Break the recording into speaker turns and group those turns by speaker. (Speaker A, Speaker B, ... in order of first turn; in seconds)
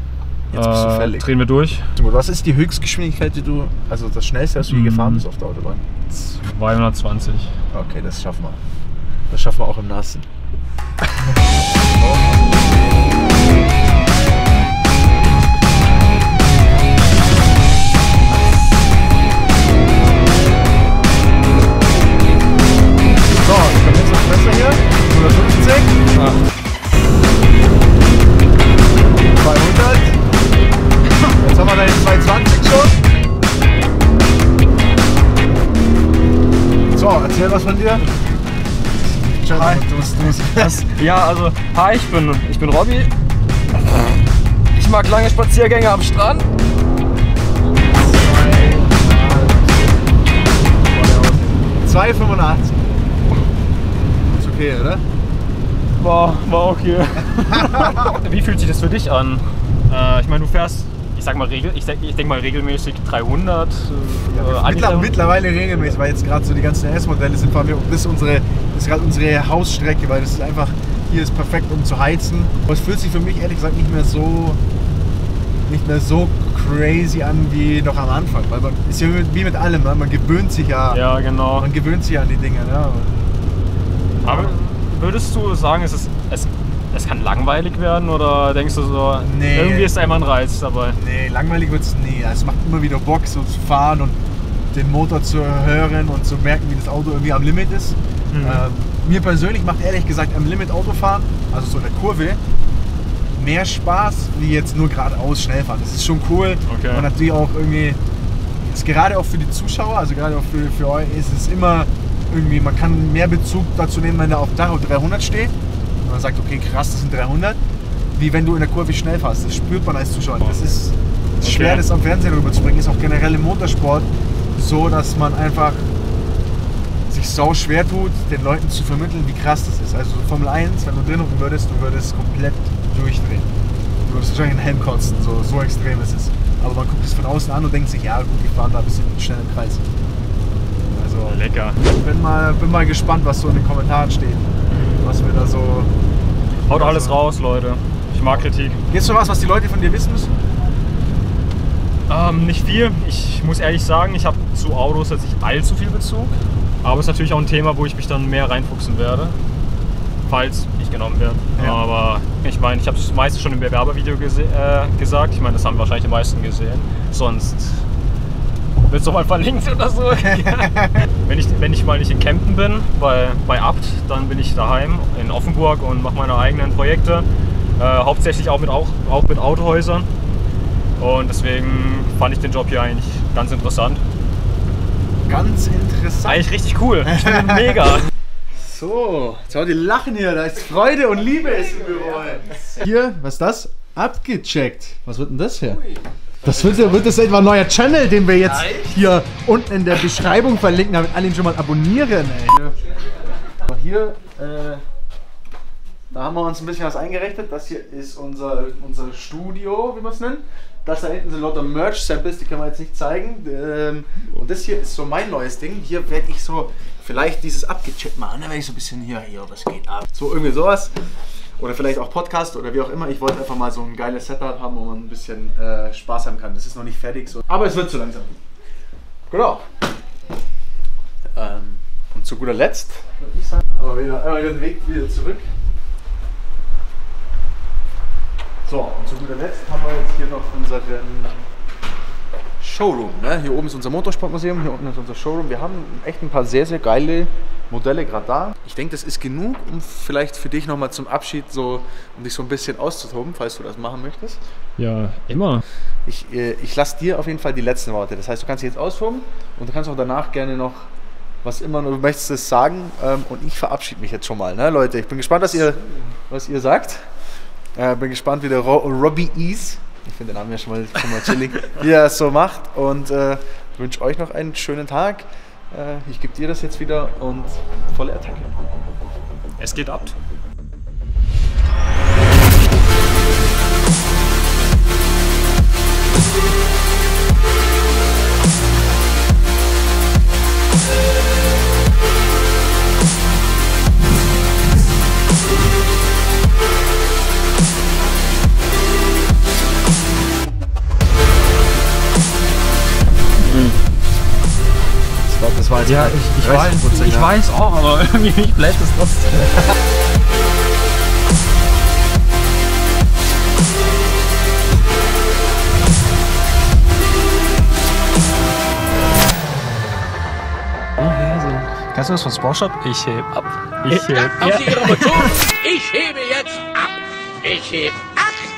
Speaker A: 0.5-1.3, 1.9-5.8, 7.7-8.6, 9.3-10.3, 11.7-12.2, 23.2-26.0, 29.0-30.2, 31.4-33.0, 36.9-38.0, 39.1-40.8, 47.6-52.9, 54.3-55.0, 57.5-58.1, 64.2-74.6, 75.7-81.0, 81.6-83.3, 84.2-84.5, 89.2-89.9, 90.9-94.2, 94.7-102.4, 103.3-108.0, 108.6-117.6, 118.1-125.9, 127.1-133.5, 134.1-139.8, 140.9-145.9, 146.7-147.2, 148.9-150.3, 161.6-161.8, 170.2-171.0, 185.2-186.5, 187.0-187.8, 188.5-195.8, 196.4-202.8, 203.7-204.8, 206.1-220.9, 221.6-228.4, 229.3-229.6, 231.3-235.5, 238.7-241.3, 242.6-254.4, 256.1-260.9, 261.4-267.1, 267.7-278.6, 305.2-307.3
Speaker B: 0.5-1.9, 4.7-5.2, 6.1-7.5, 26.1-26.4, 39.5-43.1, 43.9-44.2, 44.7-46.5, 56.0-65.5, 80.9-81.7, 84.2-91.0, 98.3-98.6, 106.7-107.1, 121.4-121.8, 141.2-141.8, 146.6-148.8, 152.1-159.4, 160.2-167.8, 168.8-177.2, 177.8-180.1, 181.0-184.0, 186.2-188.1, 254.8-255.6, 279.6-280.1, 303.4-303.8, 305.8-309.5, 321.0-325.4
Speaker C: 323.9-326.8, 327.4-328.1